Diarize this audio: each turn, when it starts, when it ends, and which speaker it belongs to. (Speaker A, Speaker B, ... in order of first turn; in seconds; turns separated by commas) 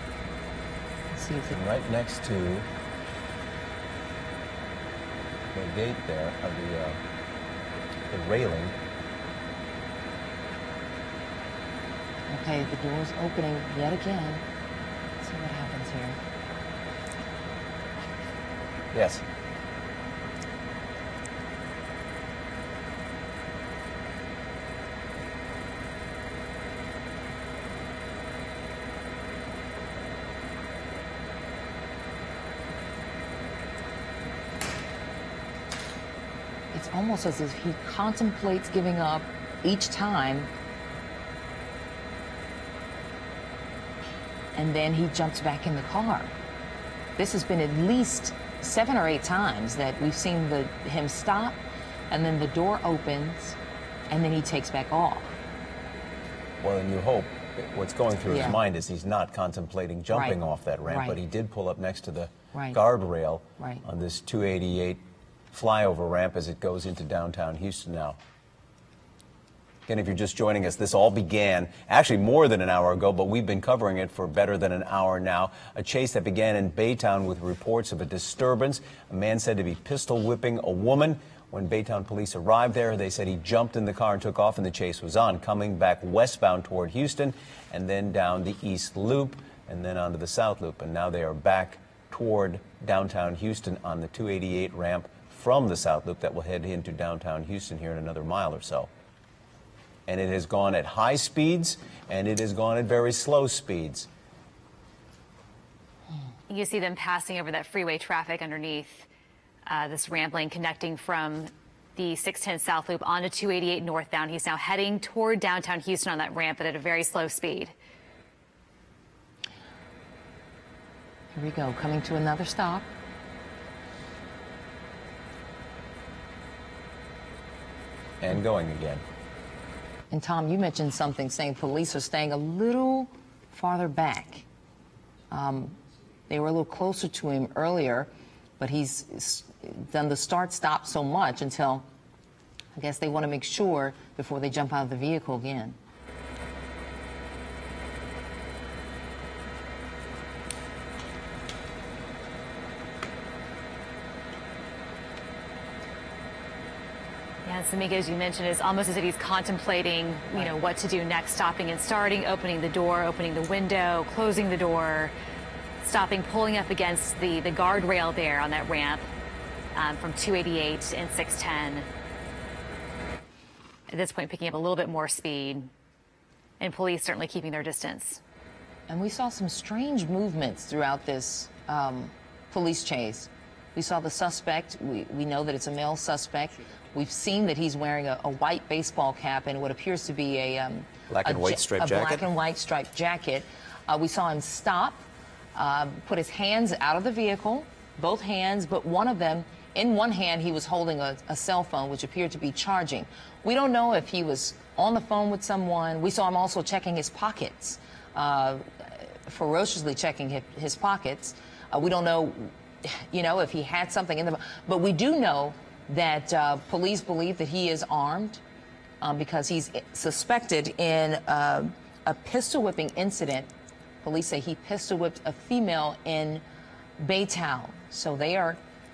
Speaker A: 1.1-1.6, Speaker B: 1.5-2.7, Speaker B: 5.5-7.0, Speaker B: 8.1-8.7, Speaker A: 12.3-14.4, Speaker A: 15.2-16.2, Speaker B: 18.9-19.2, Speaker A: 36.7-40.5, Speaker A: 44.5-46.3, Speaker A: 47.2-53.6, Speaker A: 54.1-55.3, Speaker B: 56.6-68.2, Speaker A: 58.3-58.6, Speaker A: 60.1-61.2, Speaker A: 62.5-62.8, Speaker A: 63.6-63.8, Speaker B: 69.9-98.9, Speaker B: 100.1-104.1, Speaker C: 106.5-109.1, Speaker C: 109.7-117.7, Speaker A: 121.3-122.9, Speaker B: 128.2-129.0, Speaker A: 130.1-134.4, Speaker A: 135.3-135.8, Speaker A: 136.3-141.8, Speaker A: 142.7-145.8, Speaker C: 157.4-165.1, Speaker C: 165.8-169.1, Speaker C: 169.7-171.9, Speaker C: 173.9-175.7, Speaker C: 176.6-178.2, Speaker A: 178.9-218.4, Speaker B: 191.1-192.2, Speaker A: 219.0-223.5, Speaker A: 224.0-226.4, Speaker A: 227.0-228.6